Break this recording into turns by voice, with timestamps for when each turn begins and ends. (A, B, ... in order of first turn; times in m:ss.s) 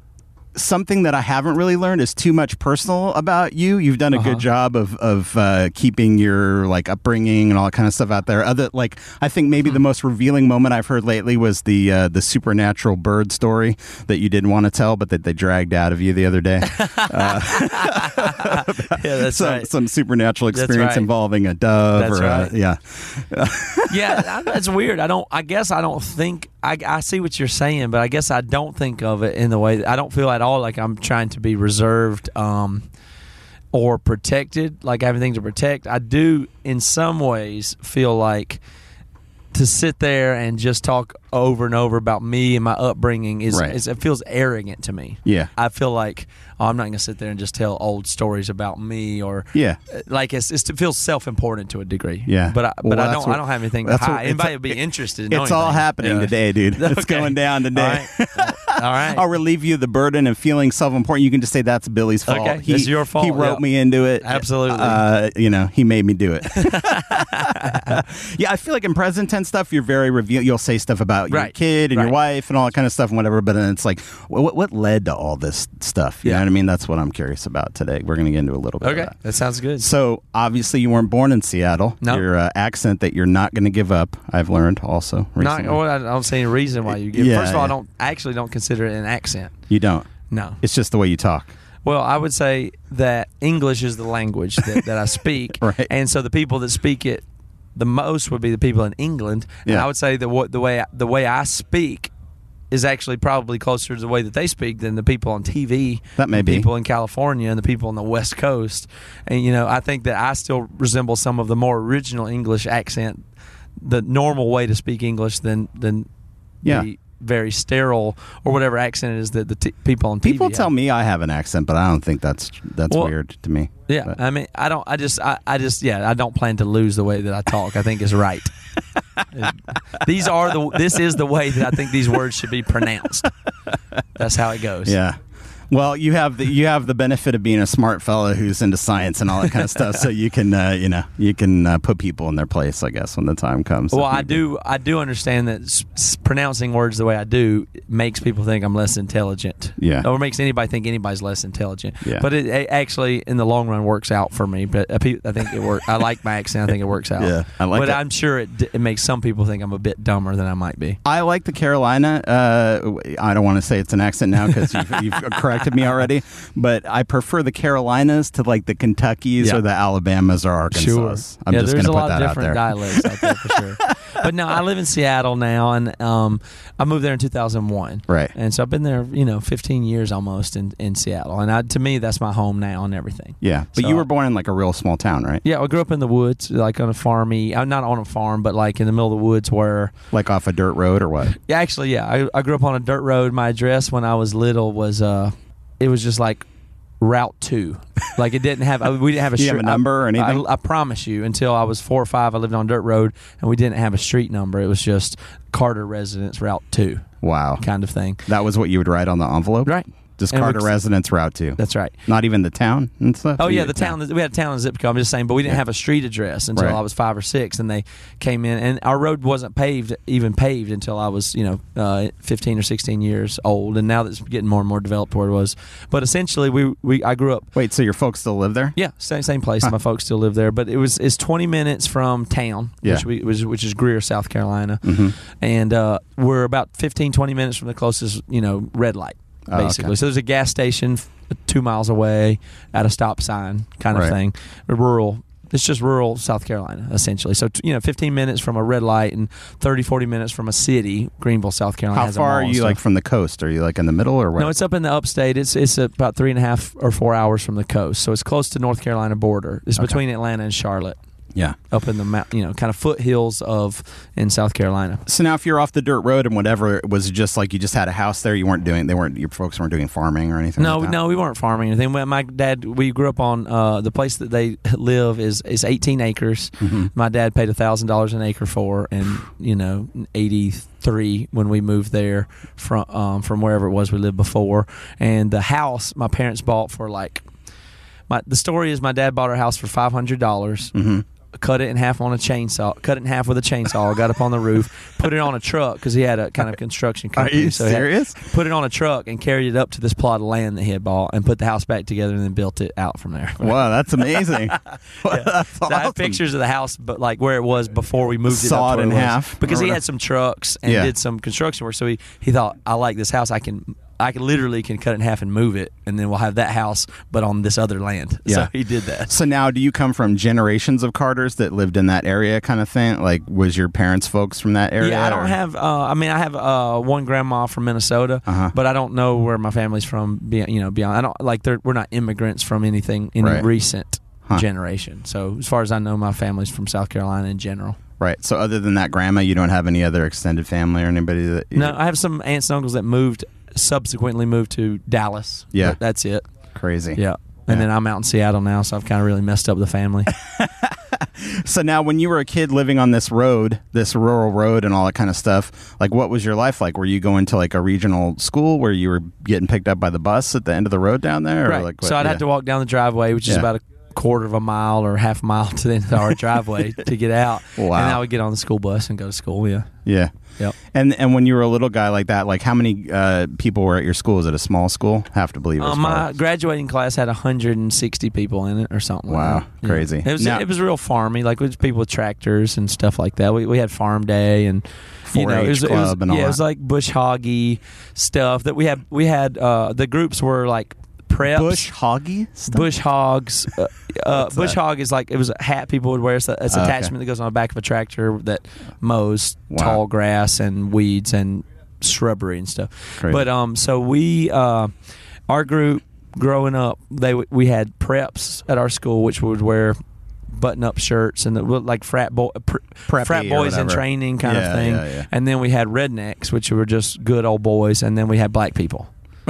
0:00.5-0:24.2 A
0:04.1-0:04.4 B
0:16.6-0:19.7 B
0:20.5-0:21.1 B
0:22.0-0:22.5 B
0:23.9-0:32.9 B
0:33.7-0:38.6 B
0:39.5-0:59.2 B
0:43.5-0:43.8 A
0:45.2-0:45.5 A
0:49.5-0:49.8 A
0:52.3-1:19.2 A
1:02.3-1:03.6 B
1:04.2-1:05.0 B
1:06.5-1:08.0 B
1:11.3-1:12.1 B
1:18.8-1:19.9 B
1:19.8-1:25.8 A
1:25.4-1:29.5 B
1:26.9-1:27.8 A
1:29.7-1:30.1 A
1:30.3-1:30.6 B
1:30.6-1:31.5 A
1:31.8-1:42.1 B
1:35.6-1:35.9 A
1:42.7-1:53.2 B
1:46.2-1:46.7 A
1:53.8-1:56.1 B
1:56.6-2:00.7 B
2:00.2-2:04.2 A
2:03.9-2:08.5 B
2:09.3-2:13.3 B
2:14.2-2:15.0 B
2:14.8-2:15.2 A
2:15.7-2:24.4 A
2:23.9-2:41.0 B
2:29.8-2:30.1 A
2:32.0-2:32.3 A
2:37.2-2:38.0 A
2:41.0-2:53.6 A
2:44.9-2:45.4 B
2:50.7-3:04.0 B
2:58.1-2:58.3 A
3:03.4-3:05.4 A
3:05.4-3:09.9 B
3:10.1-3:11.4 A
3:11.4-3:16.5 B
3:17.0-3:28.2 B
3:19.4-3:20.4 A
3:27.2-3:27.6 A
3:28.2-3:34.0 A
3:29.6-3:30.8 B
3:31.6-3:31.9 B
3:33.4-3:47.5 B
3:47.6-3:48.8 A
3:48.8-4:12.8 B
3:54.8-3:55.2 A
3:59.5-3:59.9 A
4:11.9-4:14.6 A
4:14.4-4:21.0 B
4:21.7-4:25.0 B
4:25.1-4:31.0 A
4:30.6-4:47.2 B
4:36.6-4:36.9 A
4:48.1-4:50.7 B
4:50.7-4:51.0 A
4:51.4-5:19.1 B
4:57.2-4:58.2 A
5:03.4-5:06.2 A
5:08.3-5:09.8 A
5:10.6-5:10.9 A
5:18.3-5:18.5 A
5:19.1-5:25.4 A
5:24.8-5:37.8 B
5:28.3-5:28.5 A
5:33.2-5:33.5 A
5:38.0-5:41.8 A
5:41.5-5:46.2 B
5:46.6-5:47.6 A
5:47.0-5:50.1 B
5:50.1-6:02.2 A
6:01.5-6:09.7 B
6:07.6-6:08.0 A
6:09.9-6:10.1 A
6:10.6-6:16.1 A
6:15.6-6:31.7 B
6:19.1-6:20.5 A
6:25.1-6:26.4 A
6:31.2-6:32.7 A
6:32.5-6:44.7 B
6:34.1-6:34.6 A
6:36.5-6:36.9 A
6:39.5-6:39.8 A
6:43.0-6:43.3 A
6:45.3-6:49.8 B
6:50.3-6:58.9 B
6:52.9-6:55.1 A